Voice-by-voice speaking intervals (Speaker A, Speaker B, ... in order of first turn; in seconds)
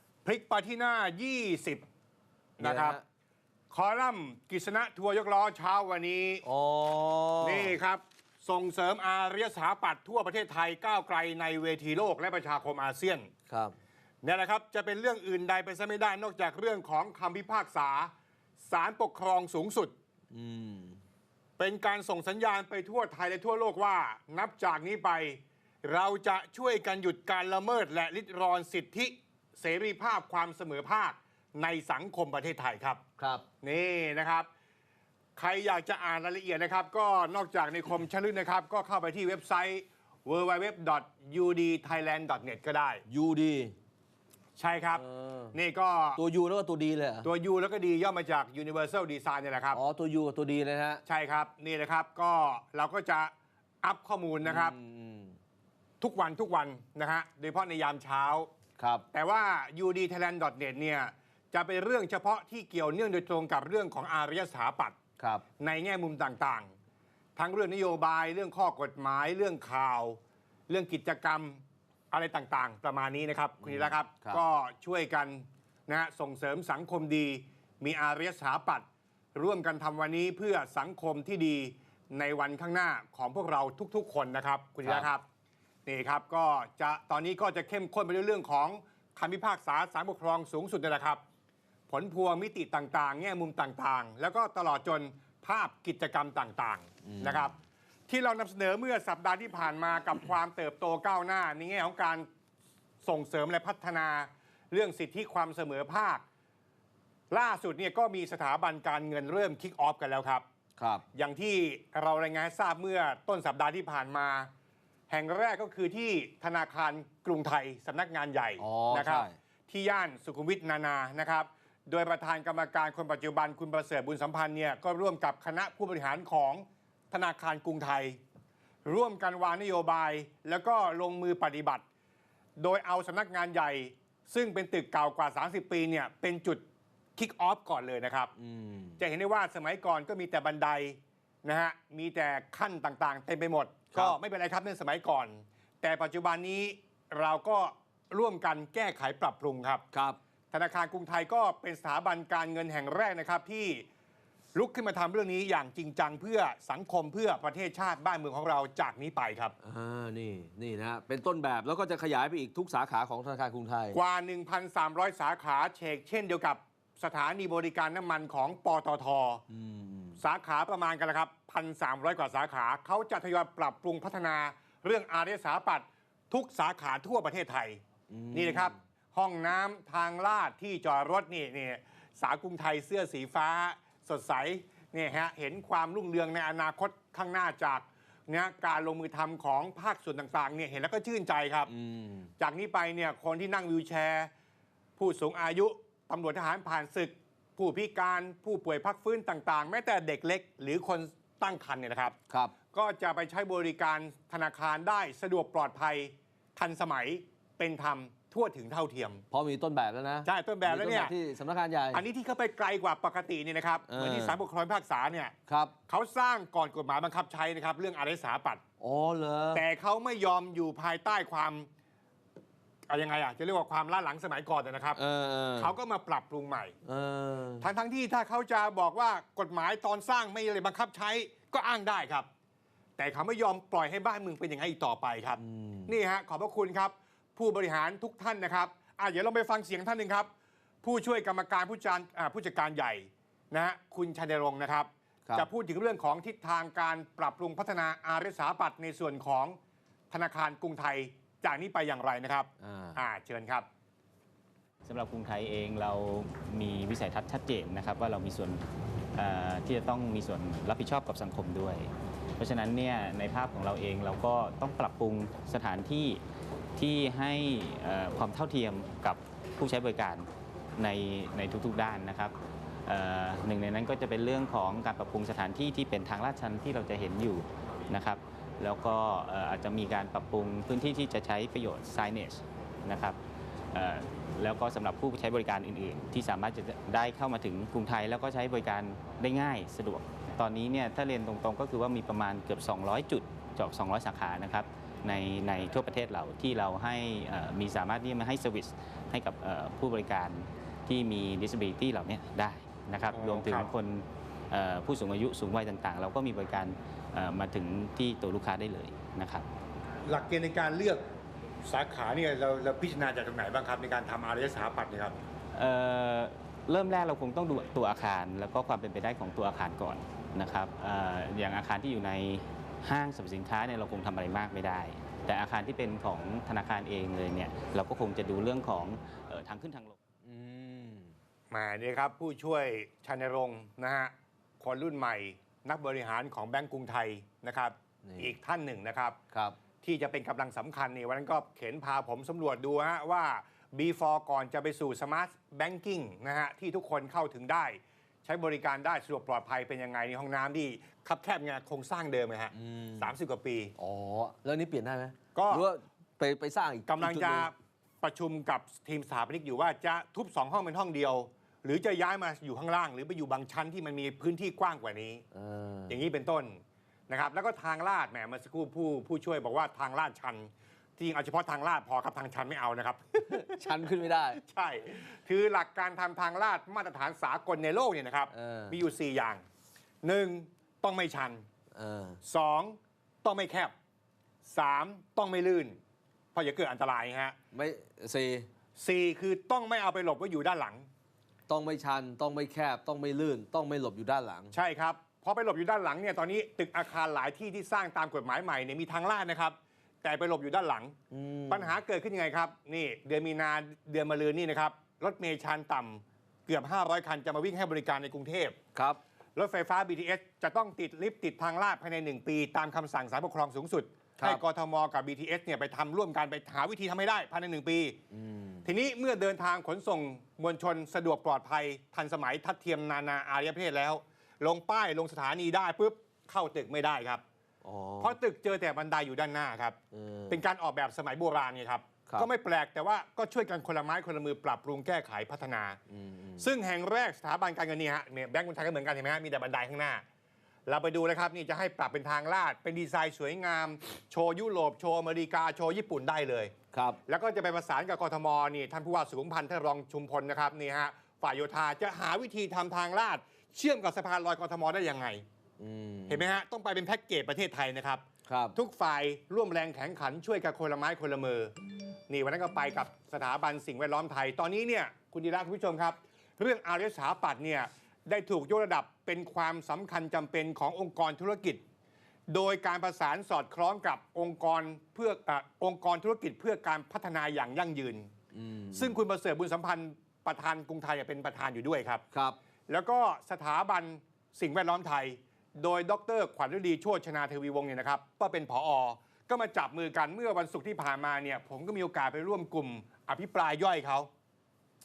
Speaker A: 0.2-1.8, 2.6-3.0, 3.7-6.4, 7.4-13.3, 14.2-19.9, 21.6-33.0, 33.6-34.5, 35.4-43.0, 44.6-46.2, 47.2-49.8, 51.0-54.8, 56.0-58.5, 59.1-65.0, 65.6-66.7, 67.3-85.2, 85.8-91.2, 91.9-102.3, 103.0-106.2, 107.3-110.4, 111.1-114.5, 115.1-128.2, 128.8-131.8, 132.6-136.6, 137.2-138.3, 139.0-149.8, 150.5-153.8, 154.5-159.5, 163.9-169.4, 170.2-177.8, 178.3-191.7, 192.4-194.3, 195.0-209.2, 210.2-211.1, 211.9-215.3, 215.9-218.6, 219.5-221.7, 222.9-225.0, 225.6-226.7, 227.6-232.3, 233.0-240.3, 240.8-249.6, 250.1-253.7, 303.1-303.7, 310.1-311.0, 311.6-315.2, 331.5-339.2, 339.7-353.7, 355.3-355.7, 356.9-365.2, 365.9-379.4, 380.0-381.4, 382.2-383.7, 384.4-385.8, 386.3-387.4, 388.8-390.9, 394.5-401.0, 401.5-408.6, 409.4-418.0, 418.6-427.2, 428.0-429.8, 430.3-435.8, 436.4-440.0, 440.7-446.5, 447.1-455.2, 456.1-461.5, 462.1-471.6, 472.3-478.1, 478.7-482.0, 482.7-494.1
Speaker B: 2.6-3.0, 6.4-7.8, 13.4-13.7, 20.3-21.0, 33.2-33.5, 43.0-43.8, 45.0-45.6, 46.1-47.3, 49.7-51.0, 54.4-55.4, 58.8-59.1, 65.2-65.5, 73.6-74.4, 84.8-85.1, 97.0-97.5, 110.8-111.0, 118.6-119.4, 138.4-139.0, 143.9-144.2, 149.9-150.2, 159.6-164.0, 169.5-170.2, 178.1-178.8, 191.7-192.3, 202.3-202.6, 209.3-212.0, 213.9-214.4, 215.5-215.8, 218.8-219.6, 224.9-225.7, 226.8-227.7, 235.4-235.9, 252.6-253.0, 330.2-331.1, 338.0-338.3, 339.3-339.6, 352.5-353.1, 353.8-357.5, 365.3-366.0, 373.3-374.4, 378.3-378.8, 381.7-382.2, 387.5-388.5, 391.5-394.5, 401.1-401.8, 408.7-409.0, 414.1-414.4, 418.1-418.7, 427.6-428.2, 429.9-430.4, 432.0-432.3, 435.9-436.5, 446.7-447.0, 455.6-456.2, 458.2-458.6, 478.3-479.0, 482.1-482.4
Speaker C: 254.8-266.2, 266.8-272.3, 272.9-283.2, 283.7-309.4, 315.5-329.9